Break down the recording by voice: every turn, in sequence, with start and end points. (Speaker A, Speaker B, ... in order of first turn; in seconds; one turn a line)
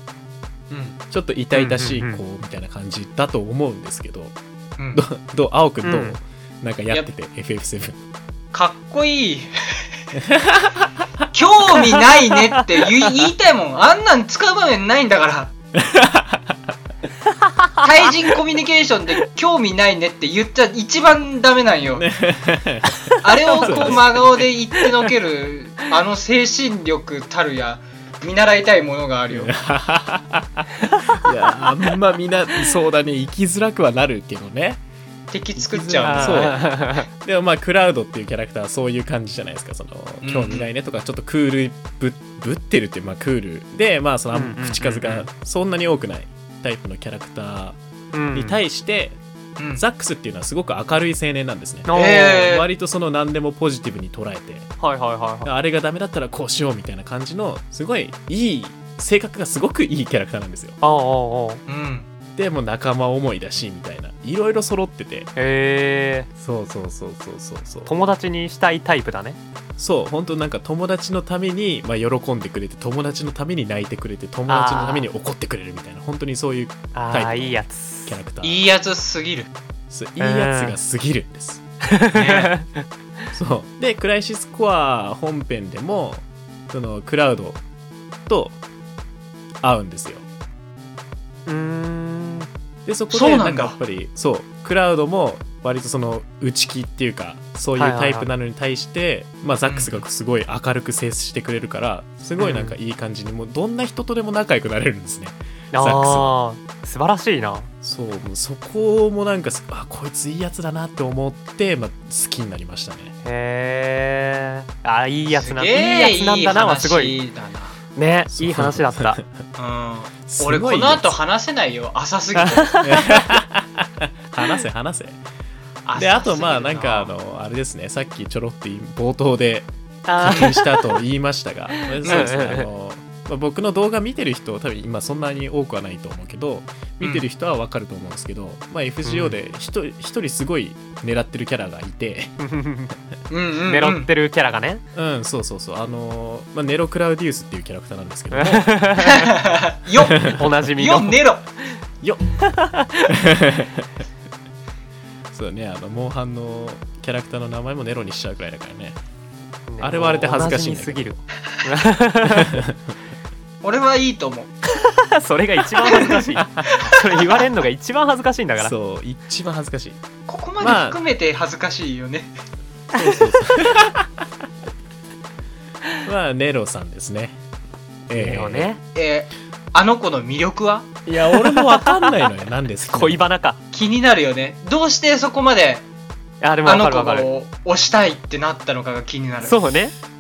Speaker A: 0.7-4.3
Speaker B: 1.5-2.2
Speaker C: 4.8-5.0
Speaker A: 4.9-8.0
Speaker B: 5.8-6.2
Speaker C: 8.5-9.5
Speaker A: 10.2-10.9
Speaker C: 11.3-15.5
Speaker A: 15.8-16.6
Speaker B: 17.3-18.2
Speaker C: 17.8-22.1
Speaker A: 21.9-24.4
Speaker B: 23.0-24.1
Speaker C: 23.2-29.5
Speaker B: 24.8-25.1
Speaker A: 29.3-34.8
Speaker C: 35.3-36.6
Speaker A: 35.6-47.8
Speaker B: 36.0-37.1
Speaker C: 40.2-40.7
Speaker B: 44.3-45.3
Speaker B: 48.1-48.6
Speaker A: 48.3-49.2
Speaker C: 49.6-49.8
Speaker A: 49.7-51.9
Speaker B: 51.9-52.5
Speaker C: 51.9-52.7
Speaker A: 52.4-54.7
Speaker B: 54.8-55.5
Speaker A: 55.5-60.8
Speaker B: 60.8-61.6
Speaker C: 61.7-62.1
Speaker A: 62.4-65.3
Speaker B: 65.4-66.3
Speaker A: 66.4-67.9
Speaker B: 67.9-69.4
Speaker A: 69.8-78.7
Speaker B: 74.5-75.1
Speaker B: 76.9-78.2
Speaker C: 78.4-79.5
Speaker A: 79.9-81.6
Speaker B: 80.2-80.8
Speaker B: 81.9-82.8
Speaker C: 82.1-82.5
Speaker A: 83.3-87.6
Speaker A: 88.3-88.6
Speaker A: 89.6-90.2
Speaker B: 91.5-92.5
Speaker A: 92.9-106.4
Speaker C: 93.1-93.8
Speaker B: 97.8-98.3
Speaker C: 99.7-100.0
Speaker B: 102.4-102.8
Speaker B: 105.7-107.7
Speaker A: 107.8-113.2
Speaker B: 113.2-117.2
Speaker C: 115.3-117.8
Speaker B: 118.0-119.2
Speaker A: 118.3-119.4
Speaker C: 119.6-122.8
Speaker A: 120.3-121.2
Speaker B: 122.4-123.2
Speaker A: 122.8-125.2
Speaker C: 125.8-127.1
Speaker A: 126.0-142.3
Speaker B: 130.1-131.0
Speaker B: 131.9-132.7
Speaker C: 132.1-132.3
Speaker B: 139.0-139.4
Speaker B: 142.4-142.9
Speaker C: 143.3-144.1
Speaker B: 143.7-144.8
Speaker A: 144.9-148.8
Speaker B: 148.3-149.3
Speaker C: 149.0-151.4
Speaker A: 150.1-150.4
Speaker B: 150.2-151.2
Speaker B: 152.4-153.1
Speaker A: 153.1-153.9
Speaker A: 155.3-159.0
Speaker B: 159.7-162.6
Speaker A: 159.8-161.2
Speaker A: 162.3-162.9
Speaker C: 163.6-164.5
Speaker B: 164.7-168.7
Speaker C: 165.8-167.5
Speaker A: 166.4-166.7
Speaker A: 168.6-170.0
Speaker C: 170.3-172.3
Speaker A: 170.6-171.0
Speaker A: 172.9-174.1
Speaker B: 172.9-173.3
Speaker A: 176.0-177.4
Speaker A: 178.1-178.7
Speaker B: 178.1-178.8
Speaker C: 178.9-180.9
Speaker A: 181.1-183.3
Speaker B: 181.3-182.3
Speaker B: 182.9-183.6
Speaker C: 183.7-185.8
Speaker B: 186.4-187.3
Speaker C: 186.6-189.6
Speaker B: 189.4-189.9